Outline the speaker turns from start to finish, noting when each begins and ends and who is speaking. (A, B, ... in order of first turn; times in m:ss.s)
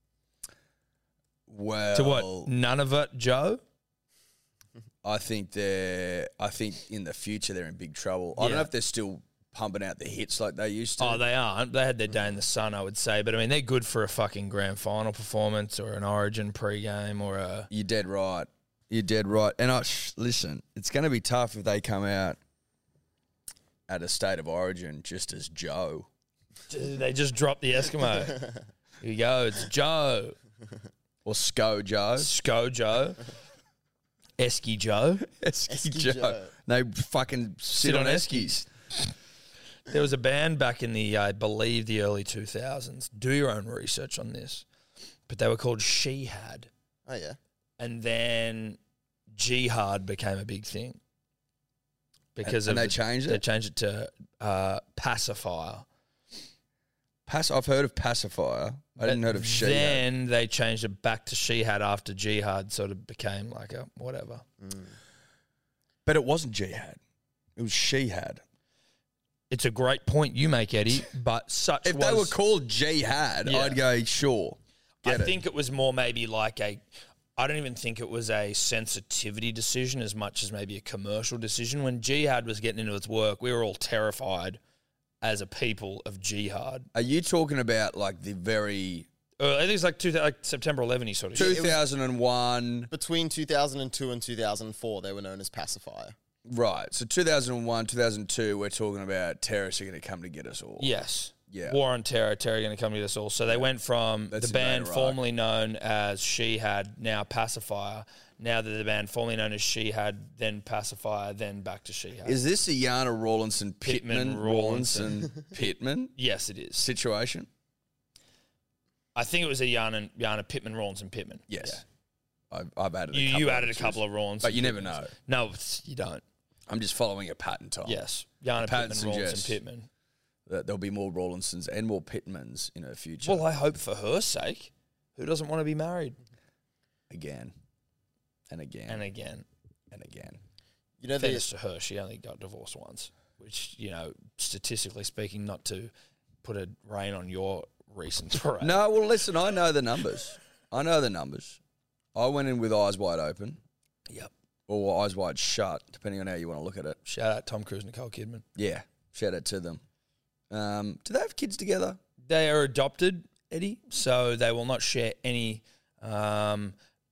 0:01.5-0:02.5 A
0:01.9-0:03.6 B
0:05.0-0:11.2 A
0:08.4-0:08.7 B
0:11.0-0:17.7 B
0:17.7-0:22.4 A
0:23.9-0:26.1 A
0:26.7-0:28.4 B
0:29.0-0:30.4 B
0:31.2-0:32.3 A
0:32.2-0:33.2 B
0:34.4-0:35.3 B
0:35.2-0:38.6 A
0:35.7-0:36.5 C
0:37.8-0:38.6 B
0:39.9-0:44.6 B
0:45.3-0:46.7 B
0:47.1-0:47.4 C
0:47.8-0:48.8 B
0:49.4-0:51.0 B
0:52.4-0:55.9 B
0:52.4-0:53.4 A
0:57.3-1:00.0 A
0:59.0-1:04.4 B
1:06.1-1:07.0 A
1:07.6-1:08.4 A
1:09.5-1:12.4 B
1:11.8-1:15.4 A
1:13.5-1:13.8 B
1:15.0-1:16.8 B
1:17.4-1:24.6 B
1:25.2-1:26.9 B
1:26.9-1:29.1 A
1:29.4-1:31.7 B
1:31.4-1:32.9 A
1:31.4-1:31.7 C
1:32.9-1:36.2 C
1:36.5-1:40.9 A
1:40.8-1:52.4 B
1:41.5-1:41.8 A
1:44.3-1:45.2 A
1:52.2-1:56.1 A
1:53.8-1:56.8 B
1:56.8-1:57.5 A
1:59.2-2:01.8 B
2:01.5-2:01.8 A
2:02.5-2:05.1 A
2:03.1-2:06.2 B
2:06.7-2:08.0 A
2:07.8-2:09.9 B
2:08.6-2:09.6 A
2:10.5-2:13.5 A
2:13.2-2:16.2 B
2:17.1-2:17.5 A
2:18.5-2:19.0 A
2:18.9-2:19.4 B
2:19.9-2:20.4 A
2:21.0-2:21.4 C
2:21.2-2:25.9 B
2:26.4-2:28.8 B
2:28.6-2:31.6 A
2:32.2-2:33.6 A
2:34.7-2:37.0 A
2:37.1-2:38.4 B
2:38.6-2:39.8 A
2:40.5-2:42.0 A
2:42.2-2:46.8 B